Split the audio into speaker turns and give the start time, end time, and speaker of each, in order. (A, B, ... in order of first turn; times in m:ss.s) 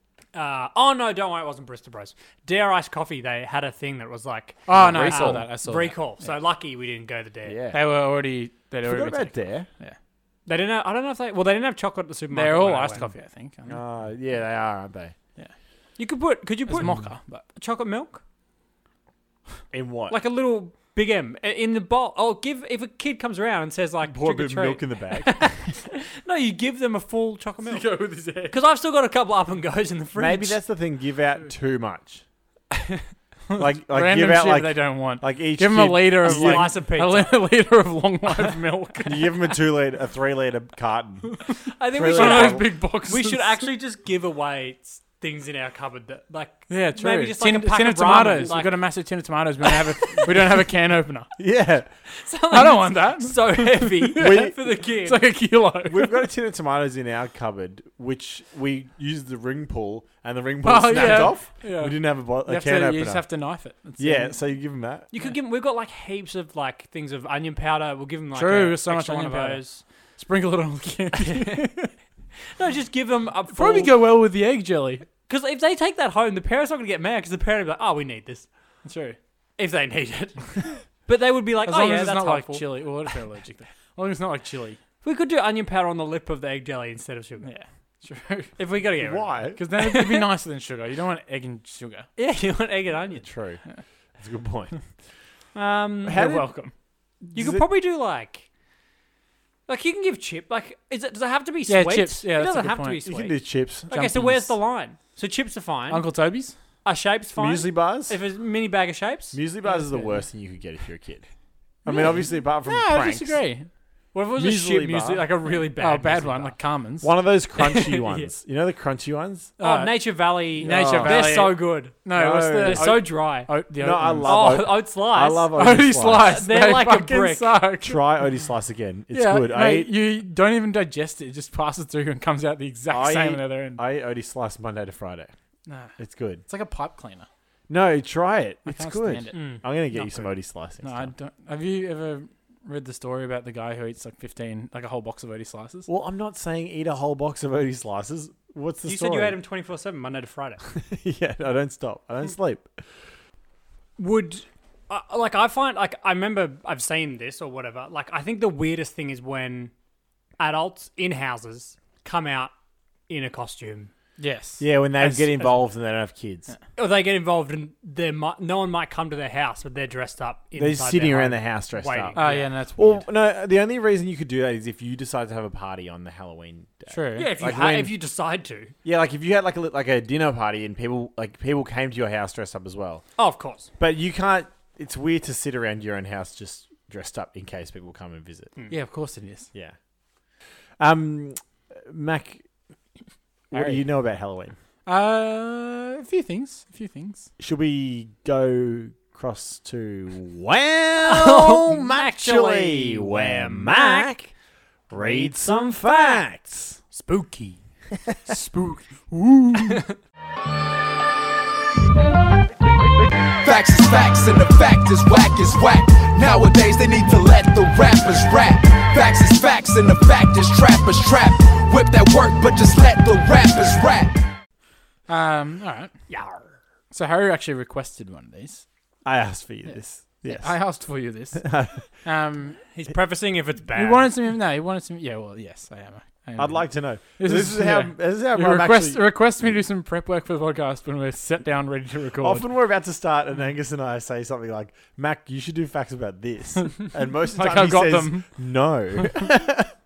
0:00.3-0:07.6 A
0:04.7-0:06.4 B
0:04.7-0:05.5 C
0:07.5-0:07.8 C
0:07.7-0:10.0 B
0:08.8-0:09.7 C
0:10.5-0:13.1 A
0:12.3-0:13.8 B
0:13.7-0:15.2 C
0:16.0-0:18.2 A
0:16.7-0:17.4 B
0:19.7-0:20.2 C
0:20.1-0:30.6 A
0:24.0-0:25.6 C
0:27.7-0:28.6 B
0:30.2-0:32.2 C
0:33.5-0:39.3 B
0:33.6-0:36.8 C
0:36.2-0:37.4 A
0:39.0-0:42.7 C
0:41.5-0:43.6 B
0:41.7-0:48.8 A
0:46.7-0:51.3 B
0:51.4-0:51.9 C
0:52.1-0:55.2 A
0:52.5-0:56.3 B
0:54.2-0:54.5 C
0:55.8-1:03.3 C
1:00.6-1:04.4 B
1:01.0-1:01.3 A
1:04.0-1:05.1 C
1:05.1-1:09.8 A
1:08.3-1:11.9 B
1:11.2-1:11.7 A
1:12.6-1:13.9 A
1:13.5-1:15.1 B
1:15.2-1:18.5 A
1:18.8-1:19.2 B
1:19.6-1:22.7 A
1:21.6-1:24.8 B
1:25.0-1:27.5 A
1:27.4-1:28.5 B
1:28.6-1:30.3 A
1:29.0-1:29.6 C
1:29.6-1:32.1 B
1:32.2-1:33.3 A
1:33.2-1:33.6 C
1:34.2-1:34.8 C
1:35.6-1:36.2 A
1:36.1-1:36.6 C
1:36.1-1:36.7 B
1:37.2-1:37.6 C
1:37.3-1:38.5 A
1:39.7-1:46.1 A
1:41.7-1:43.0 B
1:43.0-1:44.6 C
1:45.9-1:46.6 B
1:46.8-1:49.4 A
1:47.4-1:48.2 C
1:49.3-1:51.3 C
1:49.7-1:50.2 B
1:51.8-1:53.4 C
1:51.9-1:53.7 B
1:54.1-1:56.6 A
1:54.4-1:55.2 C
1:55.5-1:57.1 B
1:57.0-1:59.5 C
1:57.6-1:58.3 A
1:59.6-2:04.8 B
1:59.6-2:02.0 A
2:00.6-2:01.5 C
2:02.1-2:03.0 C
2:02.6-2:03.6 A
2:03.8-2:06.4 C
2:04.2-2:05.5 A
2:05.5-2:08.0 B
2:06.2-2:07.6 A
2:07.8-2:09.9 C
2:09.1-2:13.8 B
2:12.9-2:15.3 C
2:15.7-2:17.3 B
2:16.0-2:16.4 C
2:17.7-2:21.1 C
2:18.7-2:25.9 B
2:19.3-2:19.6 A
2:25.9-2:29.4 C
2:28.8-2:30.6 A
2:30.7-2:32.9 C
2:34.0-2:39.7 A
2:40.4-2:42.5 A
2:43.1-2:43.9 A
2:44.2-2:45.5 B
2:44.6-2:46.5 C
2:46.8-2:52.5 A
2:50.6-2:57.9 C
2:52.2-2:53.1 B
2:56.9-2:57.6 B
2:57.2-2:58.7 A
2:58.8-3:03.0 C
3:03.2-3:03.7 A
3:03.8-3:08.5 C
3:08.7-3:09.5 B
3:10.8-3:12.5 C
3:13.5-3:13.8 B
3:13.5-3:14.6 C
3:14.9-3:17.3 B
3:17.4-3:24.3 C
3:21.0-3:24.2 A
3:24.9-3:26.8 C
3:26.9-3:27.6 A
3:28.1-3:28.4 C
3:29.1-3:29.8 C
3:29.6-3:30.0 A
3:33.4-3:44.2 D
3:45.1-3:45.9 B
3:46.1-3:46.6 A
3:46.9-3:48.6 B
3:49.0-3:50.6 C
3:50.2-3:52.6 B
3:51.4-3:51.8 C
3:52.7-3:54.1 A
3:53.8-4:02.4 B
3:56.4-3:59.6 C
4:02.2-4:09.7 C
4:07.3-4:09.3 B